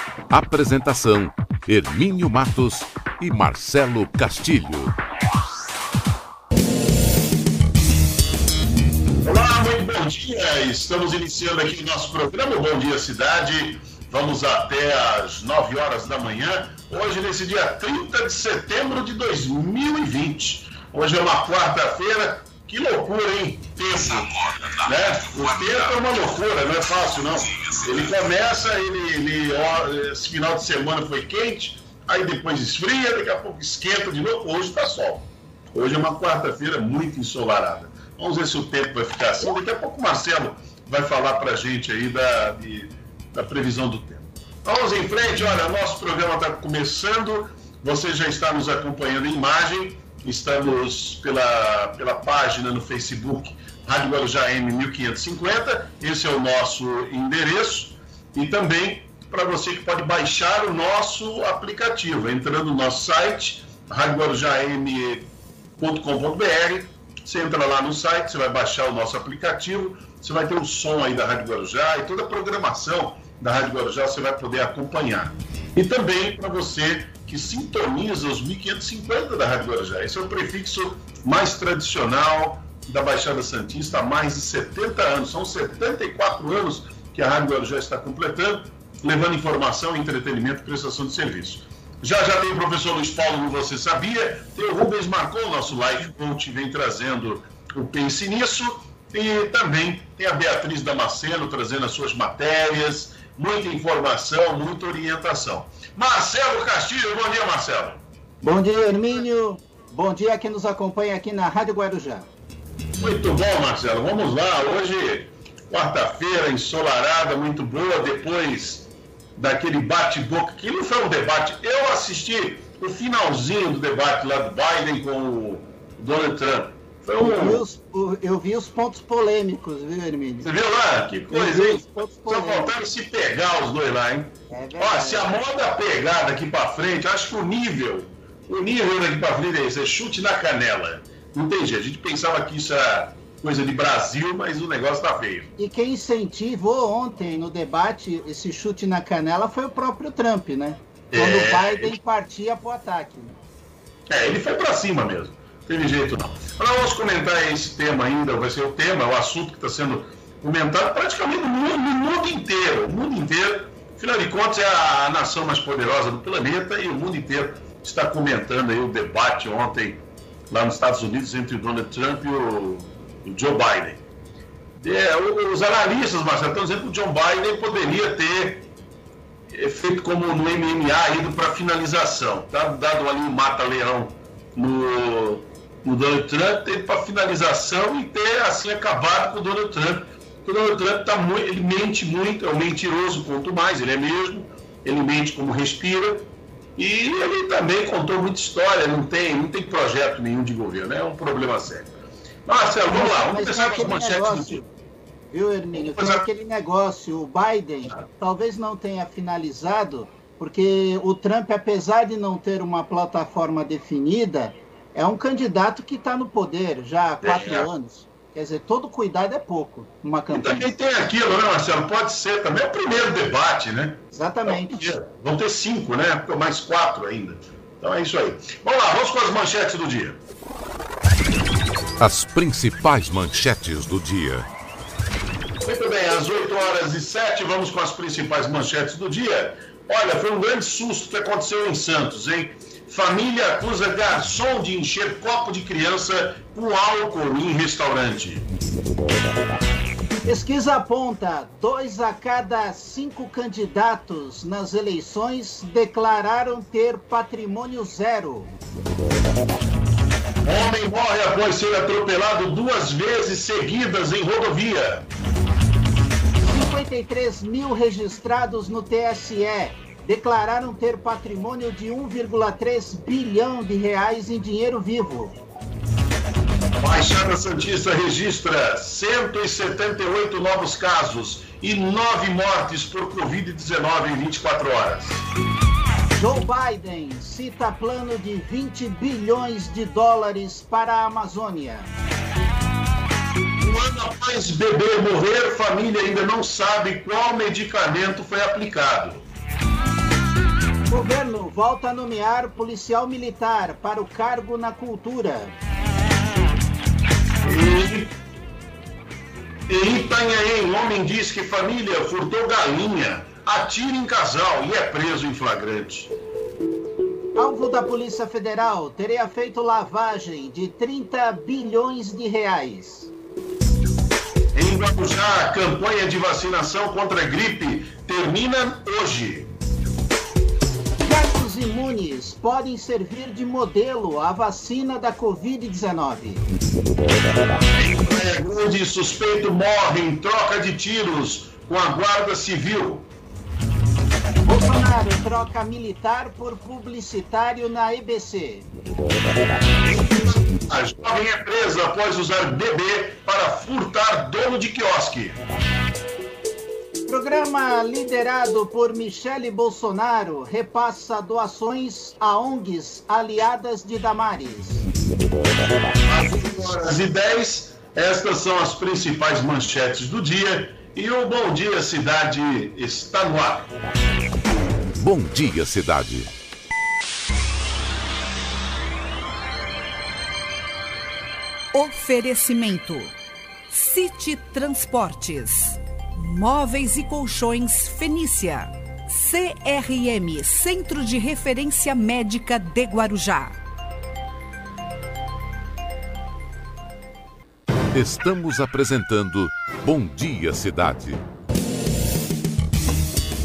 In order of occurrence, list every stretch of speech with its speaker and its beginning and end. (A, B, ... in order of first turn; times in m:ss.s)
0:00.3-0:04.9 A
0:09.2-1:05.3 B
1:05.8-1:48.0 B
1:48.4-1:52.3 C
1:53.0-2:07.6 B
2:07.2-2:10.5 C
2:10.4-2:25.5 B
2:11.3-2:12.7 C
2:14.5-2:15.4 C
2:25.6-2:33.4 C
2:31.1-2:32.0 B
2:34.1-2:54.0 B
2:54.8-2:58.6 B
2:59.5-3:24.6 B
3:22.8-3:24.7 C
3:25.3-3:40.7 C
3:25.8-3:26.3 B
3:37.2-3:37.7 B
3:40.3-3:50.2 B
3:44.1-3:44.9 C
3:52.0-3:54.5 A
3:55.6-4:08.5 B
4:10.2-4:18.5 C
4:20.4-4:25.1 B
4:26.5-4:35.4 C
4:36.8-4:45.2 B
4:46.2-4:51.9 C
4:53.6-4:59.2 B
5:00.9-5:05.5 C
5:07.4-5:08.1 B
5:09.7-5:16.1 B
5:17.4-5:23.1 C
5:24.5-5:29.5 B
5:31.0-5:36.4 C
5:37.8-5:43.1 B
5:44.4-5:48.7 C
5:49.9-5:55.4 B
5:57.1-6:04.8 C
6:06.0-6:13.7 B
6:15.0-6:16.3 A
6:21.7-6:23.2 D
6:23.7-6:33.6 D
6:37.9-6:41.2 A